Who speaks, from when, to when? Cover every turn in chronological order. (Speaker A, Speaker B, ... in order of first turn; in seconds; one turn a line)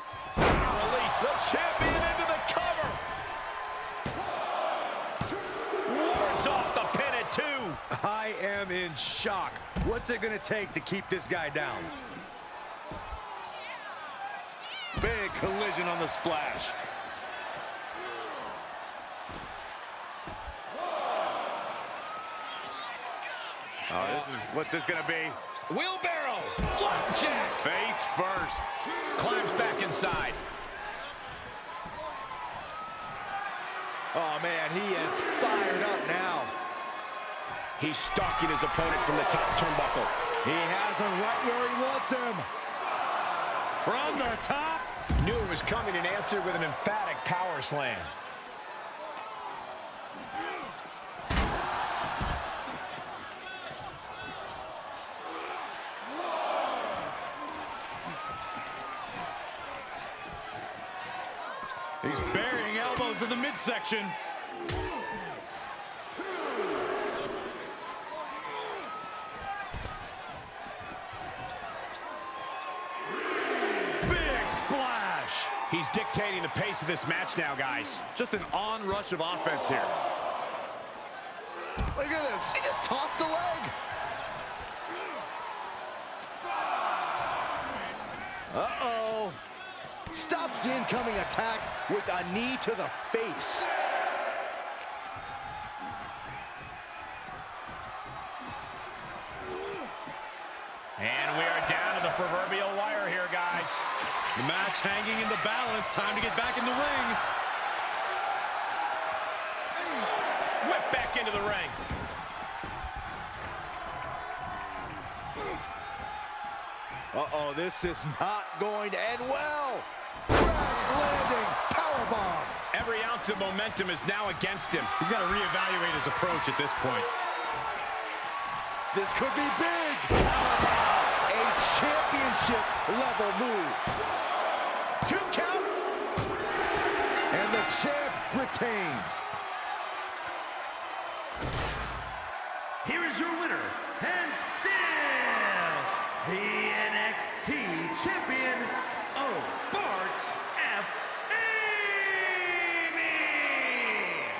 Speaker A: 0.4-3.0
Speaker A: 5.8-7.8
Speaker B: 7.9-10.6
Speaker C: 9.3-9.6
Speaker C: 10.4-11.9
Speaker B: 11.2-11.6
Speaker C: 15.0-16.7
Speaker C: 23.9-25.4
Speaker A: 24.0-24.4
Speaker A: 25.7-27.6
Speaker C: 27.6-28.6
Speaker A: 29.1-30.4
Speaker B: 34.1-36.5
Speaker A: 37.8-40.1
Speaker B: 40.4-42.5
Speaker C: 43.8-44.8
Speaker A: 45.2-48.1
Speaker C: 62.0-64.2
Speaker C: 74.0-75.5
Speaker A: 75.7-78.0
Speaker C: 78.1-79.9
Speaker B: 81.9-83.7
Speaker B: 88.5-89.4
Speaker B: 90.1-93.7
Speaker A: 101.0-103.9
Speaker C: 104.3-107.2
Speaker A: 110.6-111.8
Speaker B: 117.1-122.6
Speaker A: 122.7-124.9
Speaker C: 125.0-127.1
Speaker B: 128.9-133.8
Speaker B: 135.0-135.7
Speaker B: 137.3-139.2
Speaker D: 142.8-154.3